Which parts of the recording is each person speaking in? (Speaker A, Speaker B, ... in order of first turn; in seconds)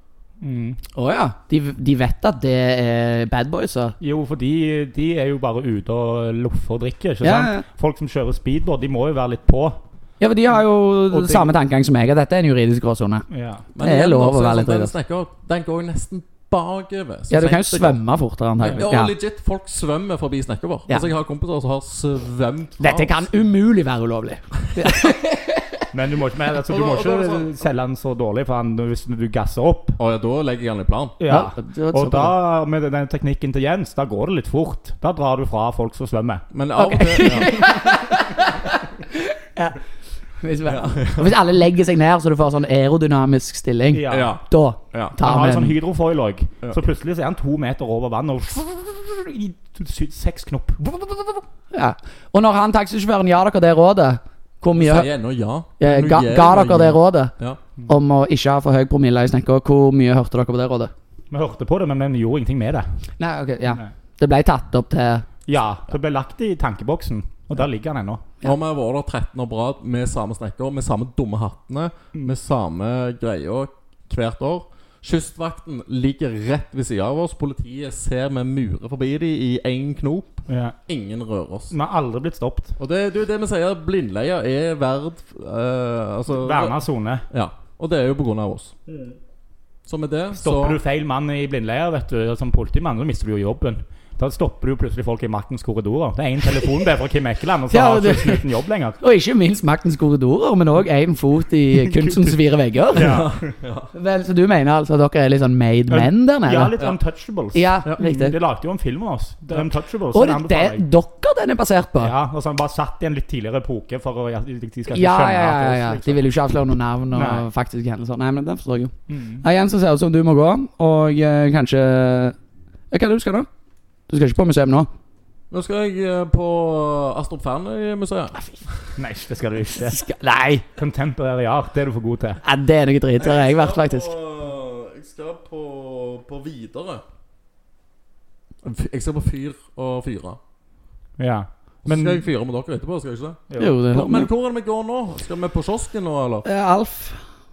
Speaker A: 0.4-0.8, 4.0-9.8, 11.1-11.5, 13.3-13.7, 25.9-30.0, 31.2-36.4, 43.9-44.3, 45.2-51.4, 61.3-63.0, 65.5-68.3, 80.5-80.8, 81.7-82.8, 86.4-87.2, 88.9-89.1, 90.4-99.0, 101.9-102.3, 102.9-103.5, 105.9-110.9, 112.0-116.3, 117.1-117.4, 119.1-119.4, 128.9-132.4, 141.2-142.2, 143.5-143.8
Speaker B: 0.9-3.9, 7.2-7.6, 10.2-13.3, 13.8-14.9, 17.3-19.1, 22.8-25.7, 31.3-32.3, 36.8-39.8, 40.4-45.8, 51.7-55.1, 55.8-57.3, 57.9-60.9, 63.2-65.3, 97.7-98.5, 99.0-103.2, 103.9-106.7, 107.5-108.3, 109.5-112.1, 114.9-122.3, 122.9-123.5, 124.1-124.9, 129.8-130.6, 132.4-134.1, 143.6-144.3, 146.4-147.2
Speaker C: 13.7-18.0, 18.6-23.2, 26.7-27.5, 30.0-31.1, 36.5-37.7, 40.6-41.3, 44.1-44.4, 54.8-57.6, 68.4-81.7, 82.8-88.7, 89.8-90.8, 102.9-103.9, 125.5-128.9, 133.2-137.0, 138.6-140.4, 141.8-146.4